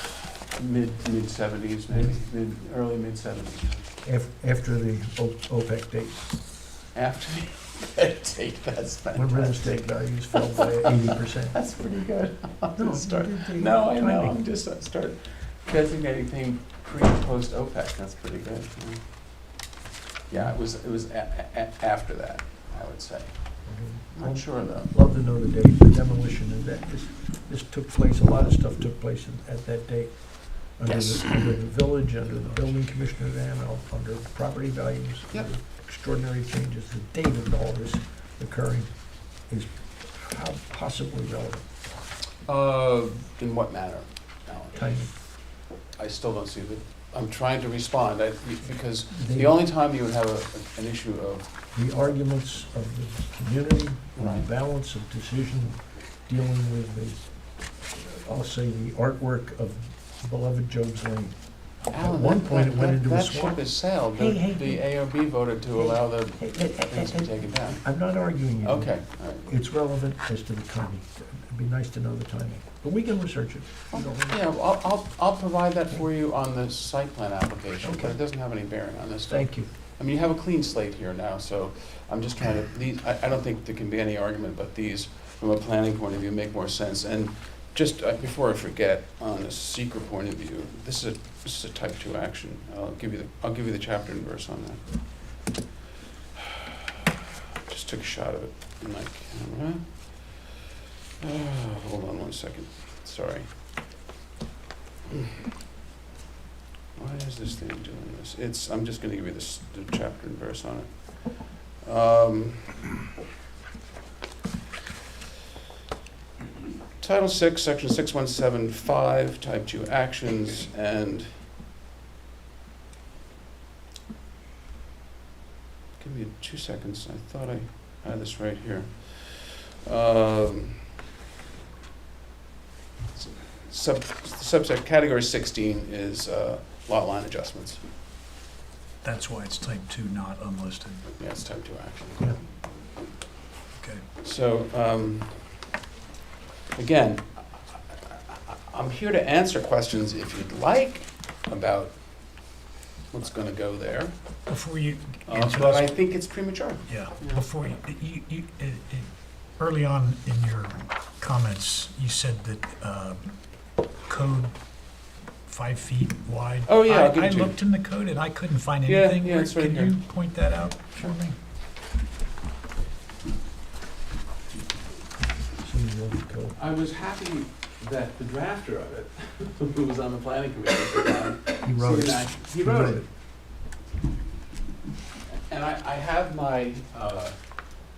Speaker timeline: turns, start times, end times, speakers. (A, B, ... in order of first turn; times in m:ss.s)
0:00.5-0:03.9 A
0:04.0-0:06.3 B
0:06.9-0:09.8 A
0:09.2-0:11.6 B
0:10.3-0:10.9 A
0:11.5-0:19.0 A
0:12.8-0:14.4 B
0:20.3-0:24.9 A
0:23.6-0:41.6 B
0:30.9-0:31.4 A
0:35.3-0:35.6 A
0:42.4-0:52.1 A
0:44.7-0:45.1 B
0:49.1-0:49.6 B
0:51.7-1:04.9 B
0:54.2-0:54.5 A
1:01.9-1:07.8 A
1:05.8-1:14.4 B
1:08.6-1:09.5 A
1:13.9-1:35.1 A
1:17.8-1:18.2 B
1:19.3-1:19.7 B
1:36.4-1:36.8 A
1:37.7-1:40.6 A
1:41.2-1:43.5 A
1:45.1-1:45.4 A
1:47.0-1:52.9 A
1:57.0-2:01.3 A
2:06.0-2:10.8 A
2:13.1-2:17.8 A
2:19.0-2:21.2 C
2:21.2-2:22.6 A
2:23.8-2:24.0 C
2:24.2-2:25.6 A
2:26.7-2:32.0 A
2:33.1-2:34.1 A
2:34.5-2:36.0 C
2:35.3-2:37.4 A
2:36.9-2:43.5 C
2:44.0-2:45.0 C
2:45.5-2:51.4 C
2:46.7-2:47.6 A
2:48.9-2:50.0 A
2:55.6-2:56.6 B
2:56.6-3:03.0 A
3:01.6-3:03.1 B
3:05.5-3:07.4 A